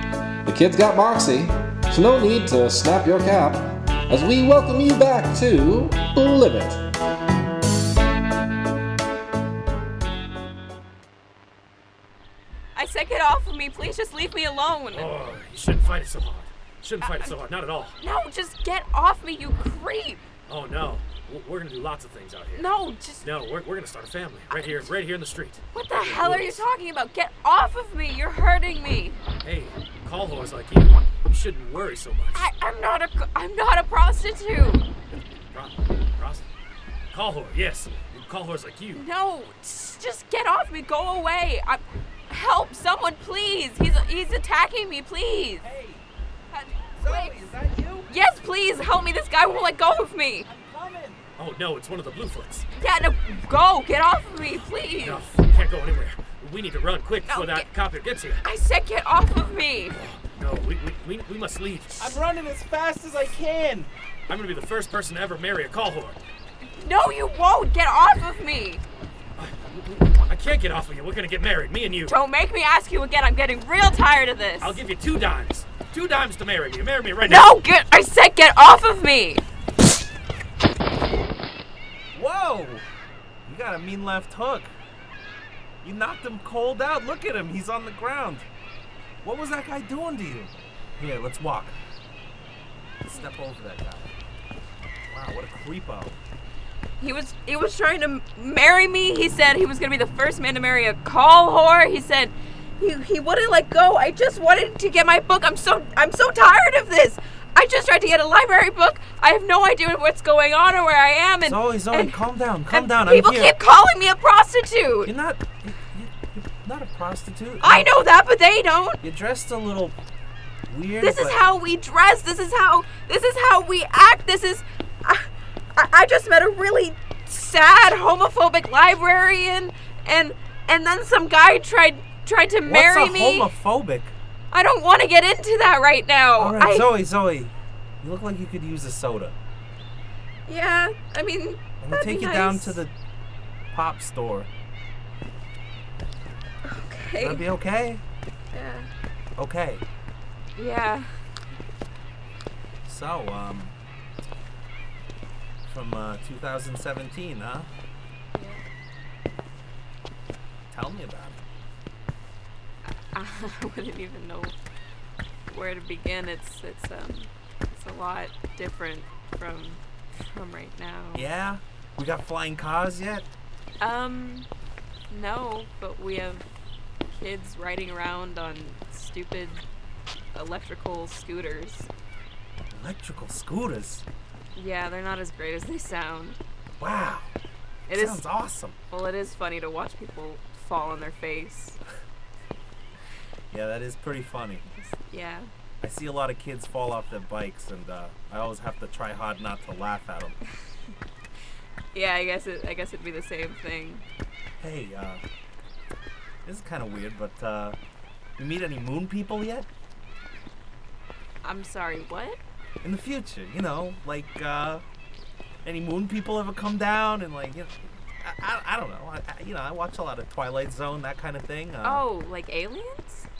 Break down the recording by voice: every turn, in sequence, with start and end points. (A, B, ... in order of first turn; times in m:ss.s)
0:00.4-0:06.8 A
0:12.7-0:15.1 B
0:14.9-0:18.0 C
0:17.0-0:17.3 B
0:18.0-0:20.2 B
0:20.5-0:22.7 C
0:22.5-0:23.2 B
0:23.2-0:26.6 C
0:24.5-0:24.9 B
0:25.7-0:29.2 B
0:29.4-0:32.4 C
0:32.3-0:34.9 B
0:35.5-0:36.5 C
0:37.1-0:39.0 C
0:38.9-0:45.6 B
0:45.6-0:46.1 D
0:46.5-0:47.3 B
0:47.0-0:48.1 D
0:48.1-0:50.5 B
0:50.4-0:51.2 D
0:51.4-0:52.6 C
0:52.8-0:55.2 B
0:55.0-0:58.4 C
0:57.3-0:57.7 B
0:58.4-1:00.0 B
0:59.9-1:02.2 C
1:02.0-1:03.9 D
1:04.3-1:06.2 C
1:06.6-1:08.8 B
1:09.4-1:12.1 C
1:12.1-1:14.8 B
1:14.6-1:17.5 C
1:17.2-1:19.4 B
1:22.1-1:22.8 D
1:23.4-1:24.7 D
1:25.8-1:28.5 D
1:29.2-1:31.8 D
1:33.0-1:34.1 D
1:35.1-1:36.2 D
1:37.0-1:52.2 B
1:51.4-1:53.5 D
1:52.7-1:55.1 B
1:55.0-1:57.9 D
1:57.6-1:59.0 B
1:59.0-2:00.0 D
2:00.7-2:01.4 D
2:01.0-2:13.5 B
2:12.6-2:14.2 D
2:14.5-2:16.9 B
2:16.4-2:19.4 D
2:20.5-2:22.8 B
2:21.8-2:22.9 D
2:23.7-2:24.5 D
2:26.6-2:27.4 B
2:27.2-2:28.0 D
2:28.5-2:28.9 B
2:29.4-2:29.8 D
2:30.6-2:31.1 B
2:32.8-2:33.8 D
2:35.6-2:37.7 D
2:38.3-2:38.6 B
2:40.7-2:41.4 D
2:43.1-2:44.6 B
2:45.5-2:51.3 B
2:51.1-2:53.2 D
2:53.8-2:54.5 B
2:55.1-2:56.5 B
2:57.1-2:59.6 B
3:00.3-3:01.9 B
3:02.7-3:04.0 D
3:04.5-3:06.4 B
3:06.8-3:07.3 D
3:07.9-3:08.2 B
3:07.9-3:08.8 D
3:08.9-3:11.8 B
3:13.5-3:14.6 D
3:14.6-3:15.5 B
3:15.8-3:20.4 D
3:21.9-3:24.0 B
3:24.6-3:25.2 D
3:26.4-3:27.8 D
3:28.4-3:29.7 D
3:31.4-3:32.4 B
3:32.8-3:34.8 D
3:35.6-3:42.0 D
3:41.8-3:43.3 B